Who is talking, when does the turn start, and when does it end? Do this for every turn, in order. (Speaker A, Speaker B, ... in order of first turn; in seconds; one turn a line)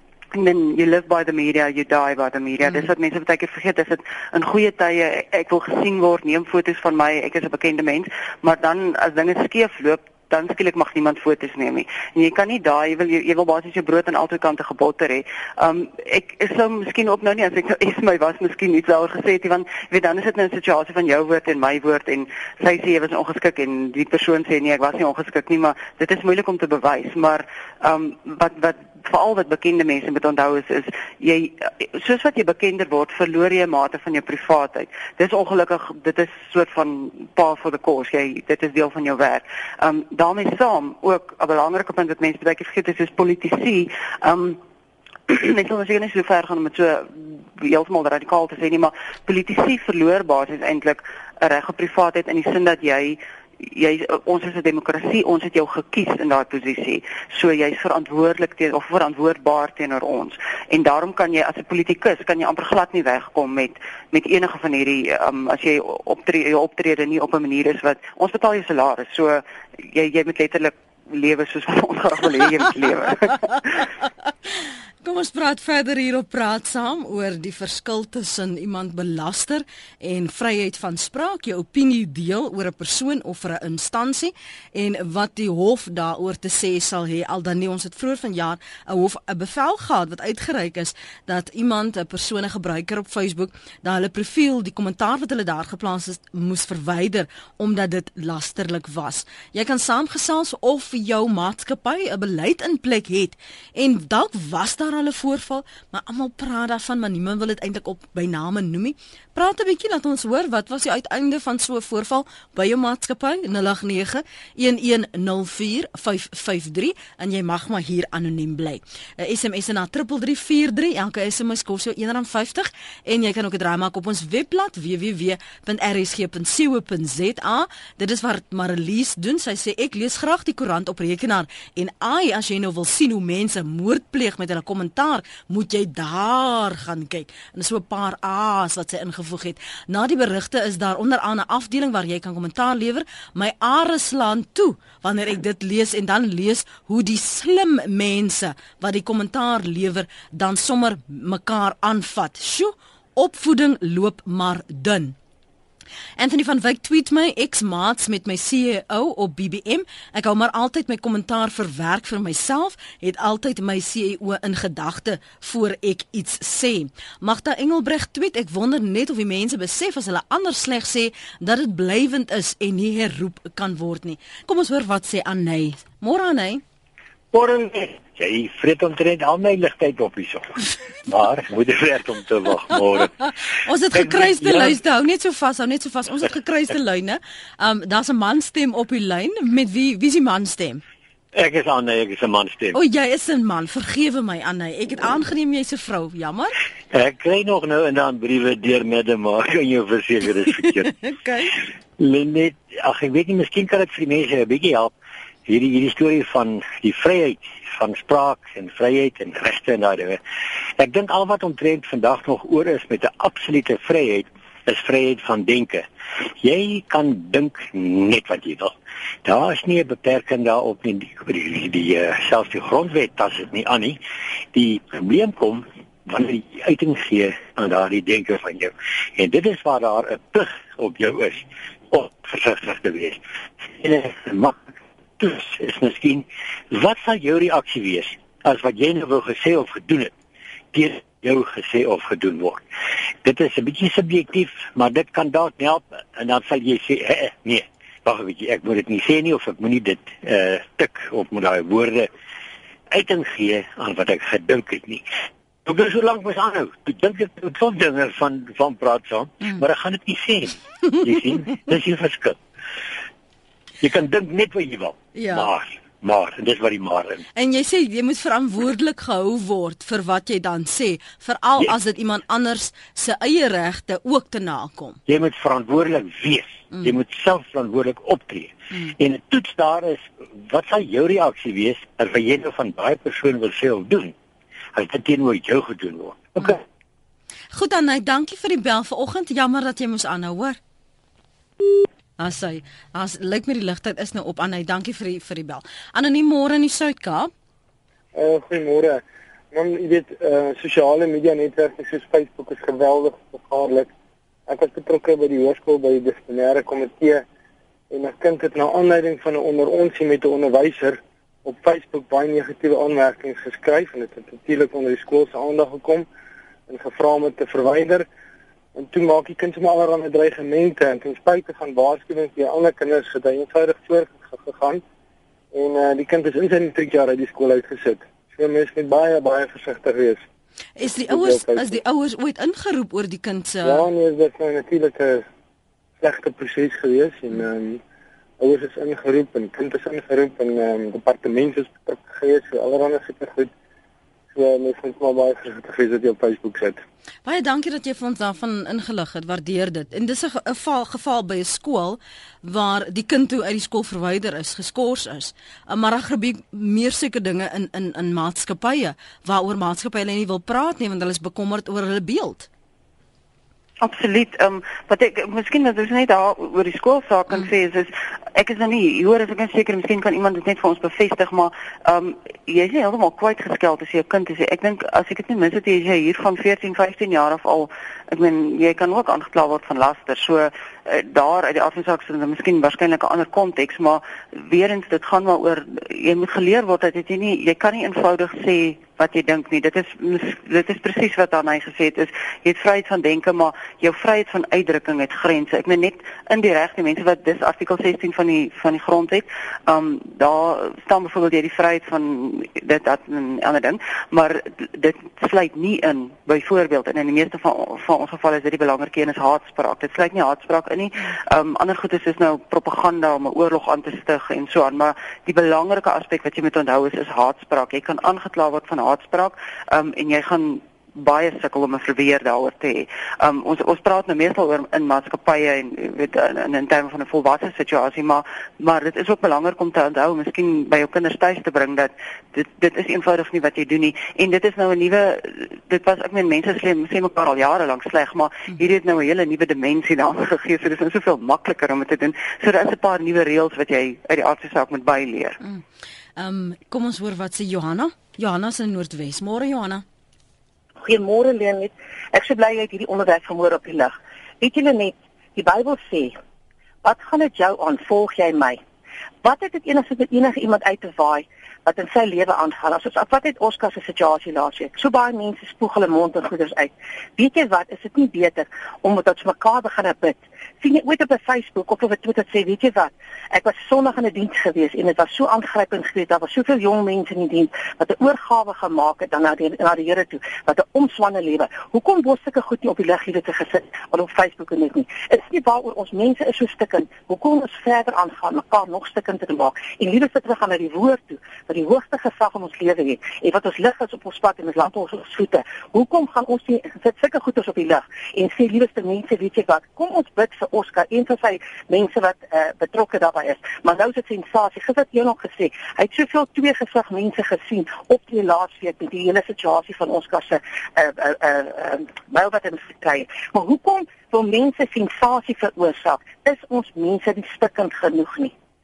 Speaker A: 0.3-44.6
Speaker A: 45.3-73.8
Speaker B: 75.0-155.1
Speaker B: 156.2-176.6
Speaker C: 177.3-180.5
Speaker C: 181.1-183.1
Speaker B: 183.6-190.8
Speaker C: 183.9-184.8
Speaker C: 191.3-192.8
Speaker B: 192.7-196.5
Speaker C: 196.9-200.9
Speaker B: 201.0-201.6
Speaker C: 202.0-204.9
Speaker C: 205.4-210.2
Speaker C: 210.8-215.8
Speaker C: 216.4-224.0
Speaker C: 224.5-240.1
Speaker C: 240.7-242.6
Speaker C: 243.2-252.1
Speaker C: 252.9-255.1
Speaker C: 255.7-262.4
Speaker C: 263.8-267.2
Speaker B: 265.1-265.5
Speaker B: 267.3-275.0
Speaker C: 275.1-284.1
Speaker C: 284.8-286.6
Speaker B: 287.5-290.6
Speaker B: 292.2-297.3
Speaker D: 298.1-303.9
Speaker D: 304.5-307.2
Speaker D: 307.9-316.1
Speaker D: 316.7-318.1
Speaker D: 318.8-324.8
Speaker D: 325.5-330.2
Speaker B: 330.8-333.9
Speaker D: 330.9-331.8
Speaker D: 333.6-335.2
Speaker D: 336.0-337.8
Speaker D: 338.4-343.5
Speaker D: 344.3-346.8
Speaker B: 347.2-362.5
Speaker A: 363.8-445.4
Speaker B: 446.2-449.8
Speaker E: 450.8-456.2
Speaker E: 456.8-458.6
Speaker E: 459.2-518.3